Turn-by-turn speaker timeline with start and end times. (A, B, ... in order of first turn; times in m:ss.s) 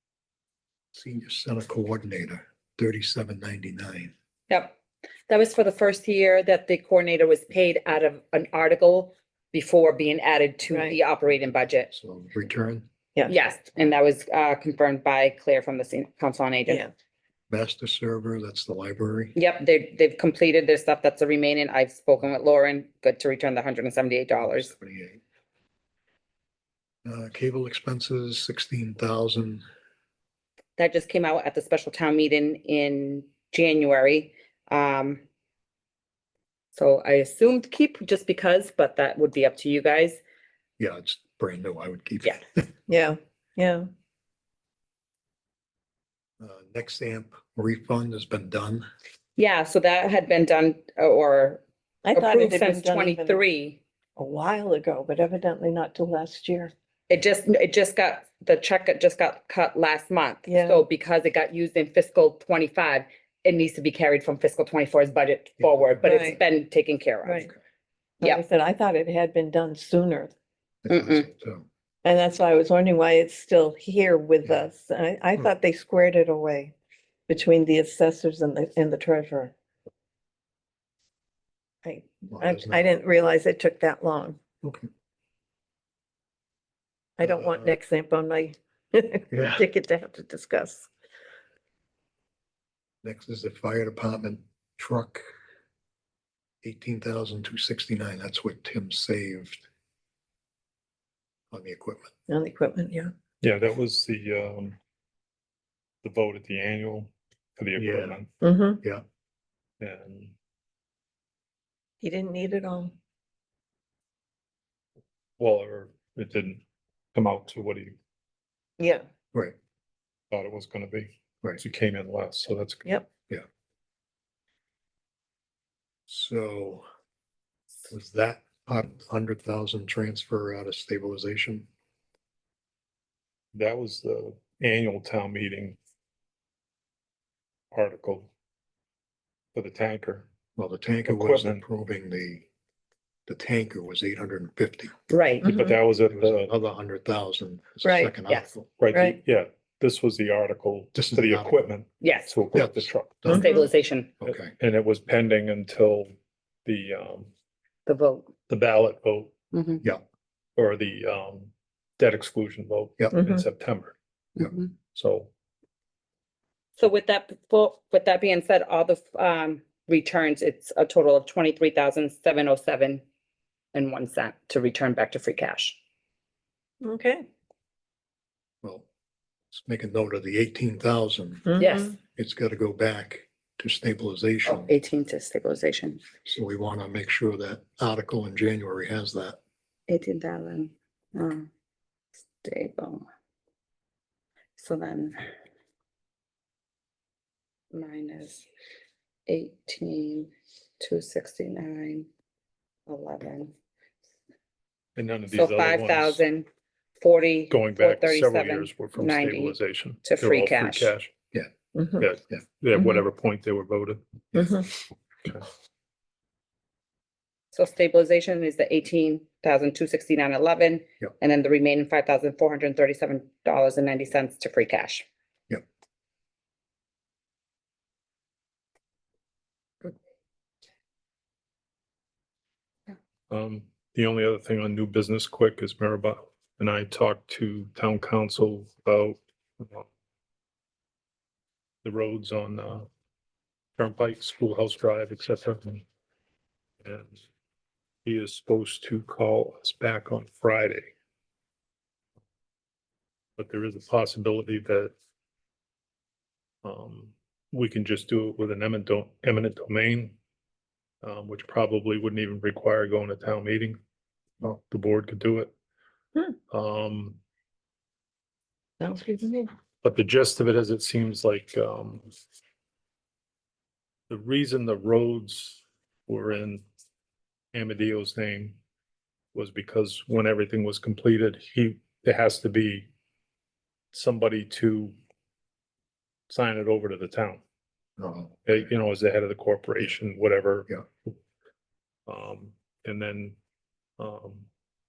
0:00.9-0:04.1 A
0:04.5-0:04.8 B
0:05.3-0:11.9 B
0:11.9-0:12.9 A
0:13.3-0:16.9 B
0:17.5-0:19.4 A
0:19.4-0:24.7 B
0:24.4-0:25.2 A
0:27.0-0:29.6 A
0:30.8-0:35.2 B
0:36.7-0:40.2 B
0:40.8-0:42.6 A
0:42.9-0:43.9 C
0:46.4-0:48.9 A
0:49.4-0:51.6 B
0:52.0-0:53.4 C
0:52.2-0:53.8 B
0:54.2-0:56.7 C
0:57.1-1:07.5 B
1:00.5-1:00.8 C
1:05.6-1:06.4 A
1:06.0-1:06.4 C
1:07.2-1:07.5 C
1:08.2-1:10.3 C
1:10.8-1:11.6 A
1:10.9-1:11.3 B
1:12.0-1:16.7 C
1:17.3-1:19.5 C
1:21.8-1:24.4 C
1:22.3-1:22.9 A
1:27.2-1:30.9 C
1:27.2-1:27.7 A
1:29.3-1:29.6 A
1:33.0-1:35.2 A
1:36.6-1:39.7 A
1:41.5-1:42.1 A
1:42.3-1:43.1 C
1:43.4-1:44.8 D
1:46.0-1:48.3 D
1:47.8-1:48.2 A
1:48.4-1:48.8 C
1:49.8-1:50.3 D
1:52.0-1:52.9 C
1:55.4-1:56.6 D
1:57.1-1:58.0 D
1:58.8-1:59.0 C
2:00.3-2:03.0 D
2:06.1-2:06.8 A
2:07.9-2:11.7 A
2:13.5-2:15.8 D
2:17.7-2:18.3 D
2:19.6-2:20.3 D
2:20.6-2:22.5 A
2:21.1-2:21.6 D
2:23.3-2:25.0 A
2:25.1-2:25.6 B
2:25.4-2:26.5 D
2:26.1-2:28.7 A
2:27.8-2:28.2 C
2:28.8-2:33.4 D
2:28.9-2:29.2 C
2:31.0-2:31.7 A
2:32.0-2:32.3 B
2:32.5-2:33.5 A
2:33.3-2:34.1 B
2:34.2-2:34.5 A
2:34.2-2:36.1 D
2:36.6-2:37.3 D
2:37.9-2:38.3 B
2:38.5-2:39.3 D
2:39.5-2:39.8 B
2:40.6-2:44.0 D
2:43.2-2:43.4 C
2:44.4-2:44.7 B
2:44.9-2:45.3 D
2:46.8-2:53.0 B
2:53.7-2:55.8 B
2:56.8-2:57.2 C
2:59.5-3:01.5 A
3:01.5-3:01.9 C
3:01.6-3:02.0 B
3:02.2-3:04.7 A
3:04.5-3:06.0 B
3:06.2-3:09.4 A
3:09.9-3:11.5 B
3:12.4-3:13.1 B
3:14.6-3:15.2 B
3:17.7-3:18.5 B
3:19.3-3:22.1 B
3:22.9-3:23.5 B
3:25.0-3:26.2 D
3:25.3-3:26.5 B
3:27.0-3:30.9 B
3:27.5-3:31.1 D
3:31.8-3:32.1 C
3:32.0-3:34.5 D
3:32.8-3:33.0 C
3:34.4-3:34.7 C
3:37.5-3:45.0 B
3:53.3-3:59.9 D
4:01.8-4:02.9 D
4:03.8-4:05.8 D
4:06.8-4:07.1 D
4:08.0-4:10.9 D
4:13.4-4:14.9 D
4:16.6-4:20.2 D
4:21.0-4:23.8 D
4:24.4-4:25.5 D
4:26.5-4:27.2 D
4:28.8-4:29.5 C
4:29.8-4:32.1 D
4:34.1-4:36.6 D
4:37.5-4:38.6 D
4:39.3-4:42.9 D
4:43.9-4:45.0 D
4:46.3-4:47.4 D
4:48.0-4:48.4 A
4:48.5-4:51.1 D
4:52.1-4:53.4 D
4:54.0-4:54.5 D